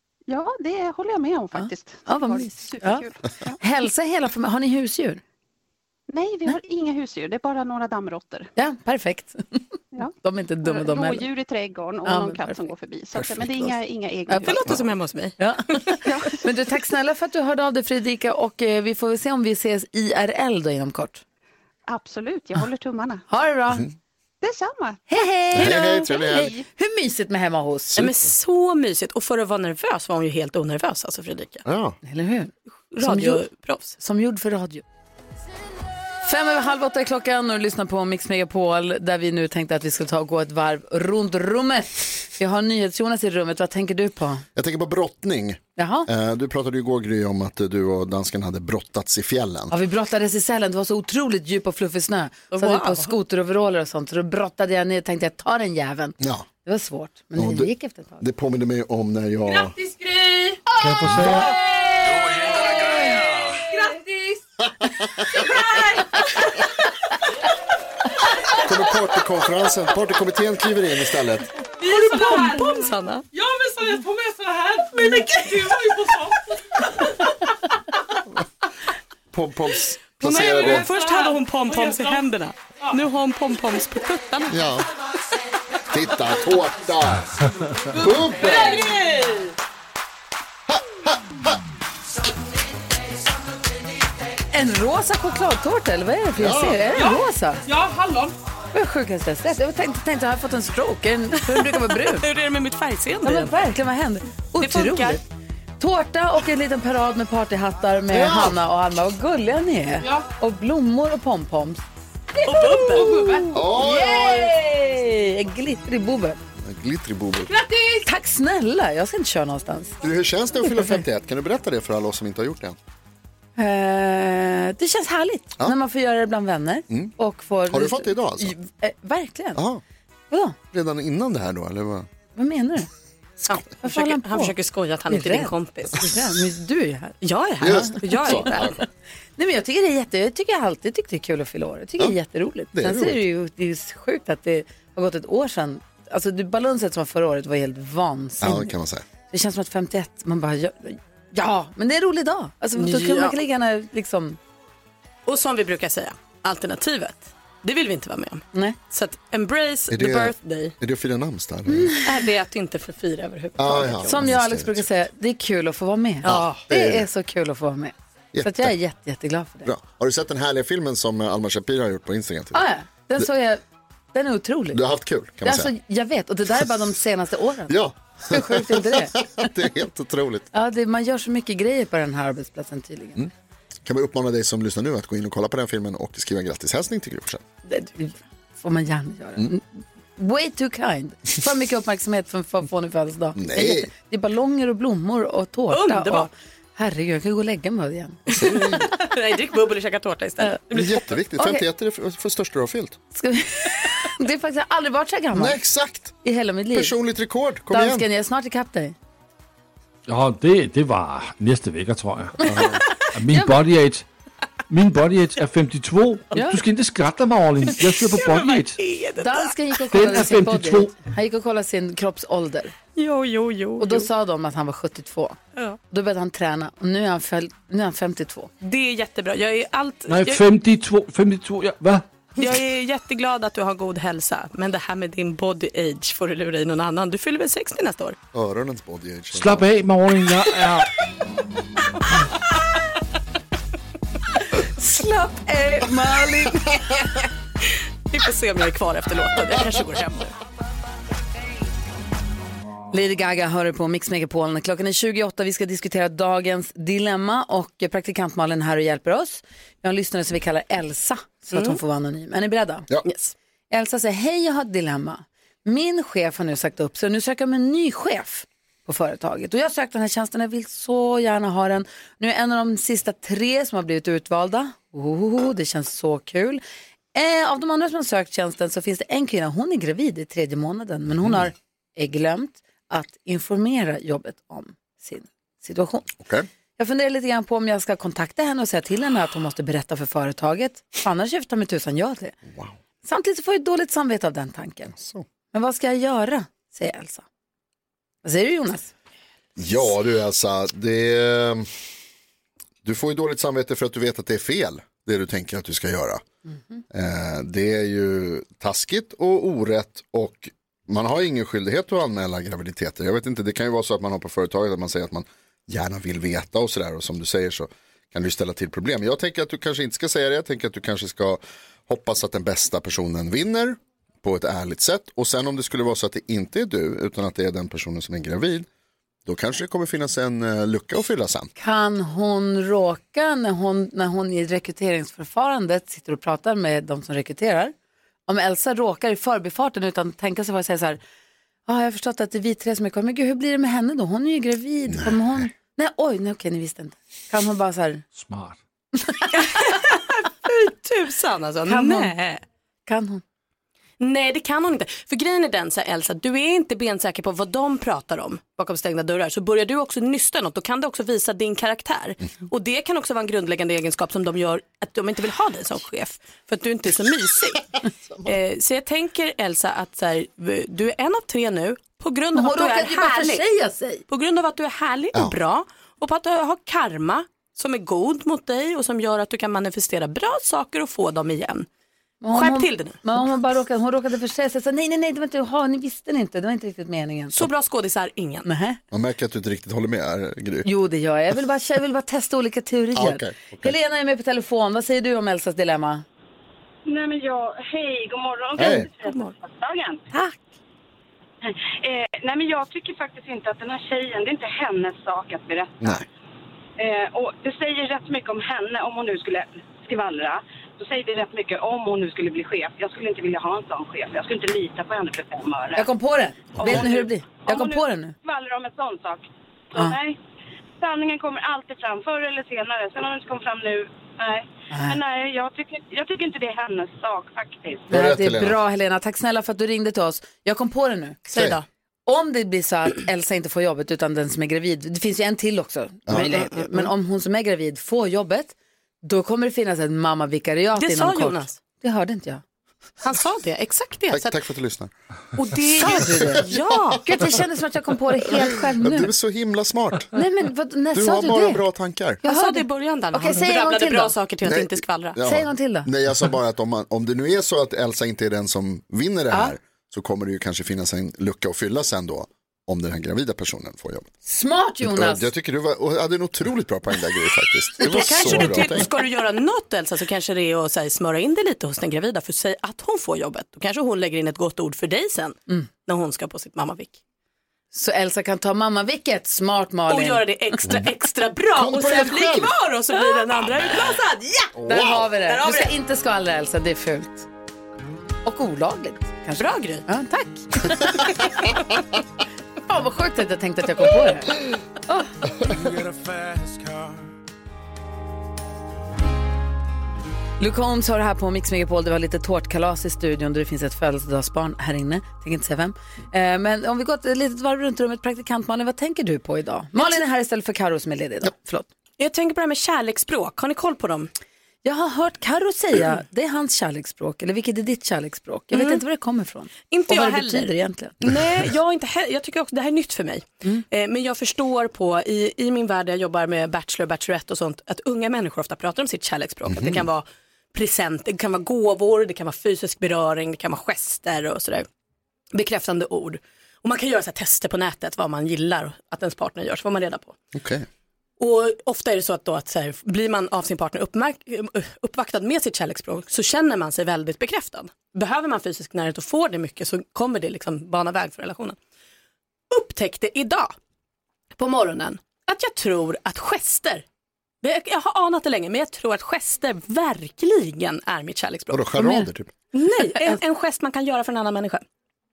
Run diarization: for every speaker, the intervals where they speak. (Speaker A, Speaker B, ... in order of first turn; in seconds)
Speaker A: 0.3-3.6, 6.1-8.5, 9.9-14.8, 16.1-16.4, 21.9-23.2, 24.4-26.7
Speaker B: 1.6-3.0, 3.6-5.2, 8.6-9.6, 10.2-11.2, 12.1-12.7, 15.4-21.2, 23.3-23.9, 25.1-28.0, 32.0-33.4, 34.0-34.8, 36.2-44.5, 45.8-46.1, 49.7-58.2, 94.5-97.7, 98.7-102.3, 103.2-105.2, 105.8-111.8, 112.4-116.4, 117.9-120.0, 120.6-121.0, 123.6-129.6, 130.3-130.6, 132.3-132.9, 133.8-134.5, 135.1-138.8, 139.4-148.7, 149.3-154.4, 161.7-162.0, 164.1-169.7, 172.5-173.6, 174.1-174.8, 175.4-177.8, 178.3-179.2, 180.5-183.3, 187.7-198.8, 201.4-201.6, 203.2-205.6, 206.2-206.9, 207.7-208.9, 216.3-216.6, 219.2-222.7, 223.8-225.4, 225.9-228.5, 244.6-246.8, 252.9-262.9, 263.7-276.6, 277.1-286.1, 286.8-292.4, 293.0-294.9, 295.5-297.3, 298.2-298.9, 306.5-306.8, 331.6-337.7, 338.3-341.0, 341.7-348.0, 349.0-349.5, 351.7-353.2, 372.3-374.0, 382.2-387.5, 388.4-388.8, 390.6-396.1, 415.8-418.1, 424.7-425.0, 427.9-431.2, 432.1-442.4, 445.8-446.5, 447.0-449.1, 450.1-451.6, 452.2-454.1, 455.2-455.9, 464.2-465.3, 477.7-480.2, 484.7-487.3, 488.2-491.2, 492.6-494.4, 494.9-495.1, 500.4-511.7, 514.6-521.0, 561.8-562.1
Speaker C: 14.4-16.0, 28.0-31.6, 32.9-33.9, 52.5-53.1, 71.8-73.3, 80.2-84.6, 101.5-103.6, 104.6-105.2, 112.4-113.4, 133.5-136.1, 137.2-138.8, 152.8-153.4, 155.3-160.7, 162.0-164.3, 195.7-196.3, 198.3-201.1, 217.8-219.6, 223.0-224.1, 228.6-230.4, 232.4-238.2, 247.7-250.3, 261.5-261.8, 263.1-263.3, 349.3-352.3, 354.0-367.7, 368.2-373.4, 374.1-381.7, 382.3-383.0, 387.4-388.5, 398.7-399.3, 400.1-400.4, 431.3-431.7, 436.2-436.6, 440.8-441.6, 443.0-444.4, 445.4-447.3, 452.2-455.2, 467.8-477.0, 479.9-484.6, 485.2-485.7, 489.4-489.9, 512.0-514.1, 518.5-518.8, 519.7-534.7, 535.3-540.2, 541.2-551.6, 552.5-553.5, 554.4-556.8, 557.4-561.9, 562.5-564.6
Speaker D: 25.5-26.5, 27.9-28.3, 31.6-32.0, 44.5-49.7, 56.2-56.5, 57.4-59.8, 61.1-61.5, 68.6-71.5, 79.3-80.9, 84.5-84.9, 85.9-87.3, 87.9-88.9, 90.7-91.2, 96.4-96.9, 108.1-108.6, 113.5-114.5, 116.6-117.5, 120.0-122.8, 127.7-128.6, 129.6-129.8, 130.7-132.1, 137.6-138.8, 142.7-143.2, 148.4-149.1, 159.9-161.9, 163.6-164.9, 166.2-167.1, 168.3-168.7, 169.7-172.7, 174.7-175.7, 177.7-180.5, 183.8-187.4, 193.4-193.9, 198.4-198.8, 200.7-203.0, 205.3-206.2, 206.7-208.1, 212.5-212.8, 238.3-239.7, 281.2-281.5, 286.2-286.5, 292.5-292.8, 294.9-295.2, 299.6-301.7, 302.8-306.2, 306.9-328.7, 329.3-331.5, 344.9-345.4, 388.9-390.7, 393.0-393.7, 398.6-398.9, 405.8-406.1, 416.6-416.8, 427.9-428.6, 444.1-444.9, 445.9-447.0, 448.8-450.1, 450.9-452.2, 454.4-464.1, 464.8-468.9, 481.6-482.5, 484.6-485.1, 529.5-529.8, 540.3-540.7, 561.5-562.3
Speaker E: 59.6-60.6, 65.5-66.0, 71.9-72.6, 73.3-76.4, 80.8-82.2, 87.9-89.5, 97.7-98.3
Speaker F: 60.8-61.5, 210.1-212.6, 213.1-214.1, 214.7-218.8, 219.9-221.0, 230.1-232.0, 239.3-240.9, 348.1-348.6
Speaker G: 396.9-400.0, 401.4-405.8, 406.8-415.9, 416.6-420.2, 420.8-427.9